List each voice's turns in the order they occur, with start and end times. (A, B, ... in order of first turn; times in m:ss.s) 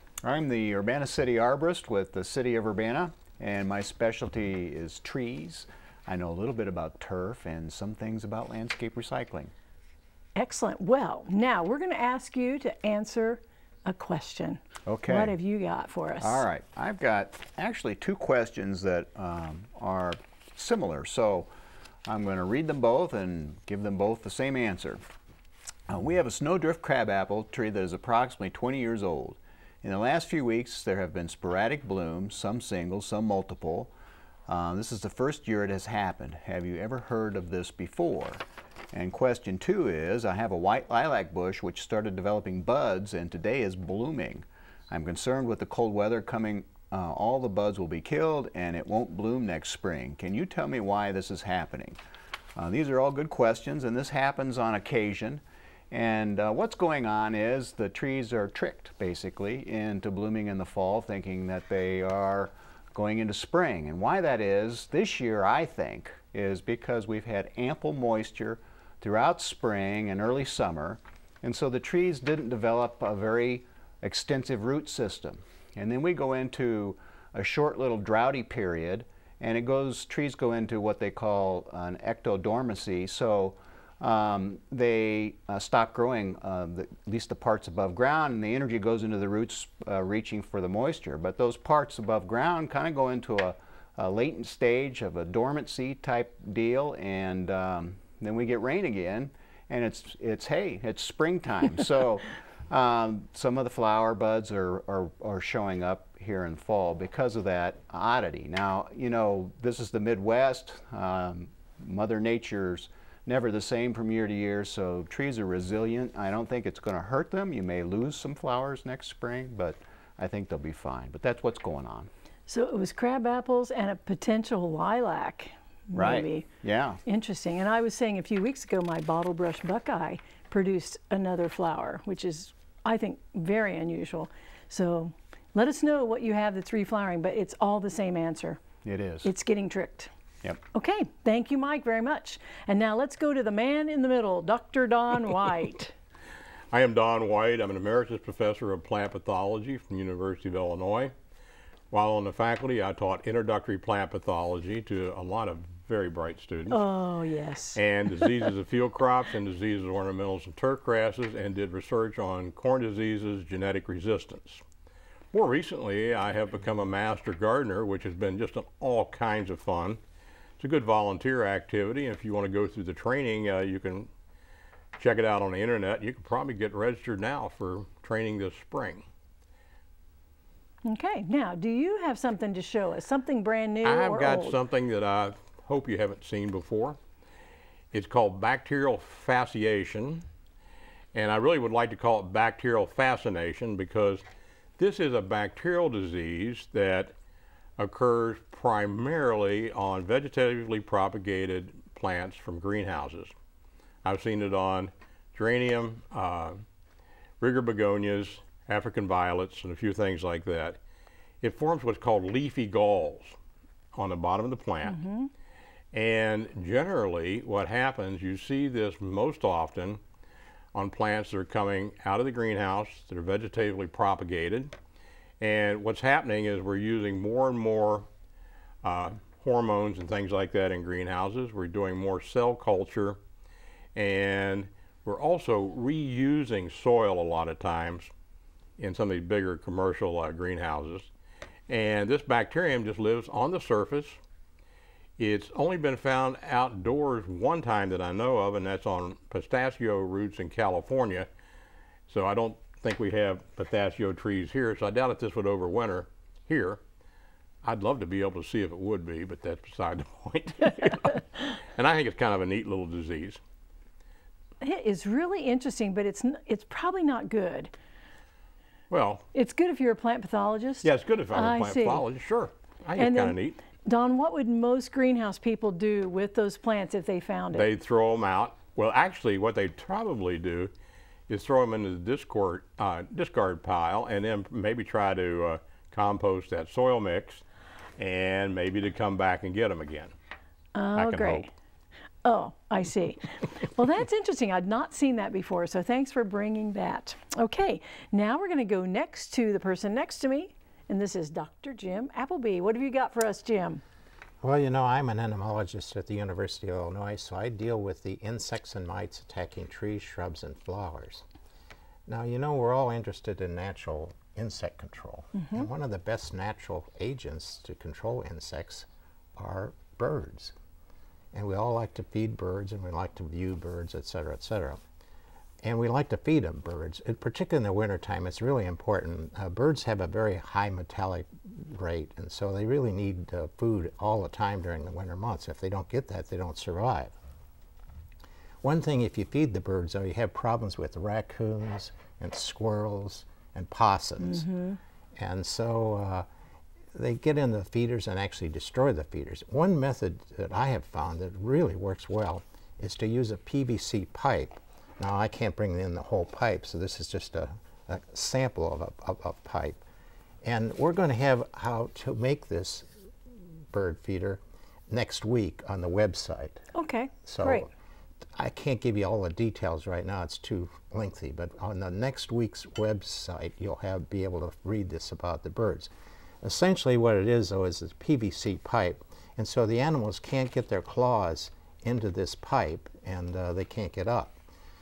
0:00.2-0:09.5 A
0:10.4-0:16.4 B
0:14.9-0:15.3 A
0:16.2-0:21.5 A
0:22.1-0:25.0 A
0:25.9-0:33.9 A
0:34.5-0:52.0 A
0:52.6-2:02.1 A
2:02.5-2:06.5 B
2:06.0-2:07.0 A
2:07.1-2:18.6 B
2:18.8-2:19.3 A
2:19.2-2:20.1 B
2:20.7-2:25.9 B
2:26.7-2:31.1 C
2:31.9-2:36.8 C
2:36.7-2:38.5 B
2:37.8-2:44.6 C
2:45.3-2:50.0 C
2:50.6-2:54.1 C
2:55.0-2:59.1 C
3:00.8-3:04.6 B
3:03.8-3:07.0 C
3:07.9-3:10.2 C
3:11.1-3:14.2 C
3:14.8-3:17.1 C
3:17.8-3:23.3 C
3:24.0-3:26.6 C
3:27.4-3:30.8 C
3:31.4-3:33.4 C
3:34.0-3:35.0 C
3:34.8-3:35.3 B
3:35.9-3:40.0 C
3:40.7-3:44.7 C
3:45.4-3:48.1 C
3:48.8-3:53.2 C
3:54.0-3:58.1 C
3:58.8-4:01.1 C
4:01.7-4:04.2 C
4:05.2-4:11.3 C
4:12.1-4:16.8 C
4:17.6-4:23.4 C
4:24.6-4:27.7 B
4:28.9-4:29.2 C
4:29.3-4:32.0 B
4:30.8-4:33.6 C
4:33.0-4:37.7 B
4:37.5-4:40.7 C
4:41.3-4:47.4 C
4:48.0-4:50.1 C
4:50.8-4:51.5 B
4:51.0-4:51.4 C
4:52.2-5:03.8 B
5:04.4-5:11.2 D
5:12.1-5:20.5 D
5:15.4-5:15.7 B
5:21.3-5:24.8 D
5:25.6-5:37.2 D
5:38.6-5:44.5 D
5:44.2-5:44.8 B
5:45.2-5:46.3 D
5:46.9-5:59.8 D
6:00.4-6:02.9 D
6:03.7-6:06.6 D
6:06.7-6:07.7 B
6:07.2-6:07.7 D
6:08.4-6:15.9 D
6:16.4-6:24.4 D